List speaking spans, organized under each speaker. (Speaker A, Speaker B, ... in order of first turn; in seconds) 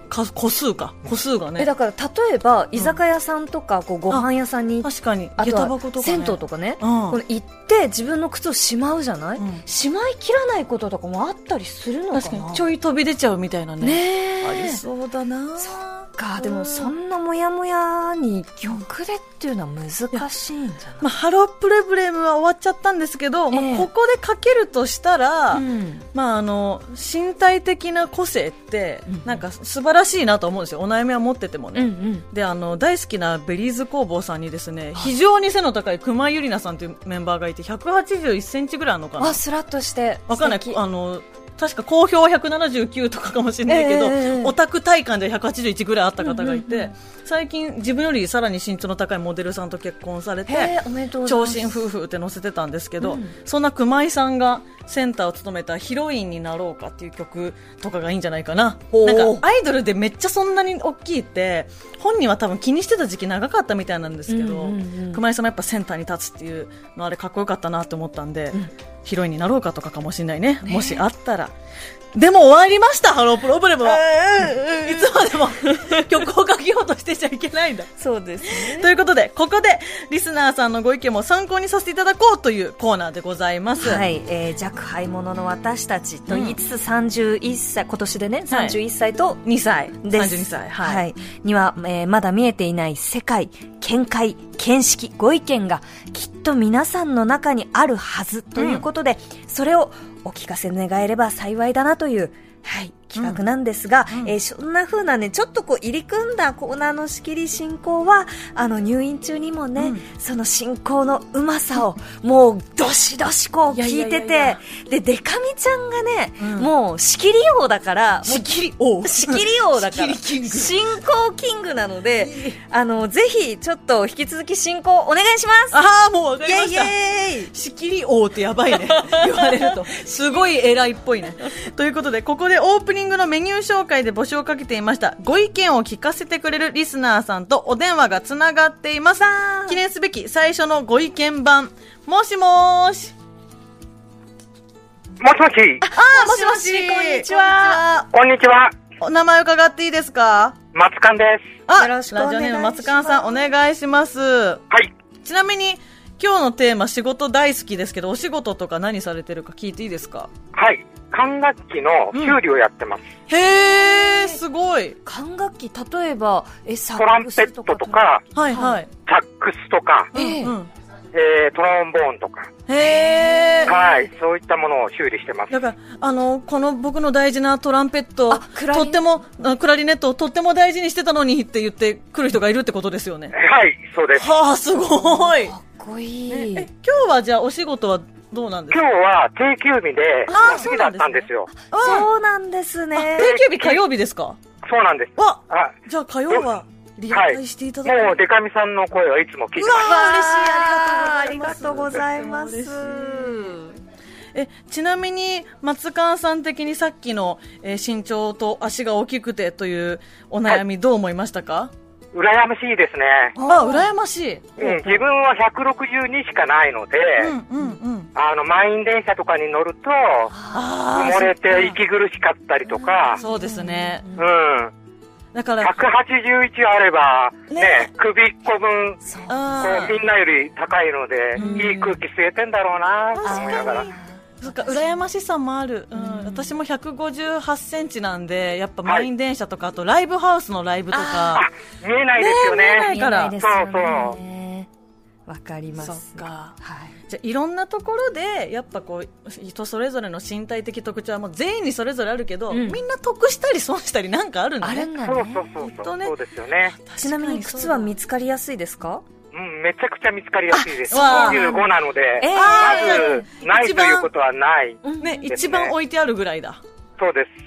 Speaker A: 0.1-1.7, 4.8-7.2, 9.4-9.6, 12.1-16.9, 21.0-39.4, 40.3-71.5, 72.1-77.9, 78.5-84.0, 86.3-86.6, 88.5-88.8, 89.4-91.0, 98.5-98.8, 103.2-103.4, 109.8-110.0, 113.7-114.6, 116.4-116.7, 118.2-120.9, 122.2-122.6, 125.7-143.1, 145.9-148.1, 149.0-150.6, 151.7-154.6, 155.2-160.3, 162.1-162.4, 163.3-165.0, 168.3-168.9, 170.1-170.7, 172.7-173.8, 175.5-183.3, 184.2-185.5, 186.3-188.8, 190.3-192.1, 192.9-194.4, 195.2-198.2, 199.6-203.7, 204.3-211.7, 213.4-215.0, 217.2-218.1, 220.5-221.8, 223.2-224.1, 225.3-225.7, 227.5-227.9, 229.3-230.0, 231.3-231.8, 233.1-241.4, 242.2-243.3, 245.8-246.5, 247.1-254.9, 255.6-256.1, 256.7-257.9, 260.9-261.6, 262.3-264.1, 265.0-266.6
Speaker B: 1.6-12.7, 13.8-14.8, 15.6-21.1, 23.5-23.9, 25.5-26.1, 29.1-29.4, 31.8-32.2, 39.2-40.8, 43.6-44.5, 46.2-46.9, 50.5-51.8, 53.0-53.3, 58.9-59.4, 64.3-65.2, 70.6-71.0, 73.8-76.2, 78.0-78.9, 83.8-89.4, 90.0-125.8, 126.4-127.5, 128.7-129.8, 139.2-139.8, 145.8-147.8, 151.7-153.5, 165.0-168.8, 170.1-170.6, 172.8-174.0, 178.3-179.0, 185.0-186.7, 190.3-190.7, 191.5-193.3, 199.7-203.6, 213.3-213.9, 220.3-220.7, 222.7-224.3, 229.0-229.8, 231.3-232.0, 233.2-234.9, 235.9-236.5, 240.9-241.4, 242.6-244.7, 245.3-246.9, 252.5-252.8, 254.6-255.5, 257.0-259.0, 260.5-263.3, 264.8-265.3
Speaker C: 145.2-145.8, 148.1-148.8, 150.7-151.5, 160.5-163.1, 167.0-168.2, 169.0-170.1, 171.1-172.5, 173.7-175.6, 183.3-184.3, 188.7-191.5, 193.2-193.8, 194.6-195.8, 197.1-199.9, 212.1-213.3, 214.6-217.3, 218.1-220.3, 220.9-223.2, 224.2-224.7, 225.6-229.0, 229.6-233.9, 241.3-244.2, 255.0-256.7, 259.3-265.7, 267.0-267.3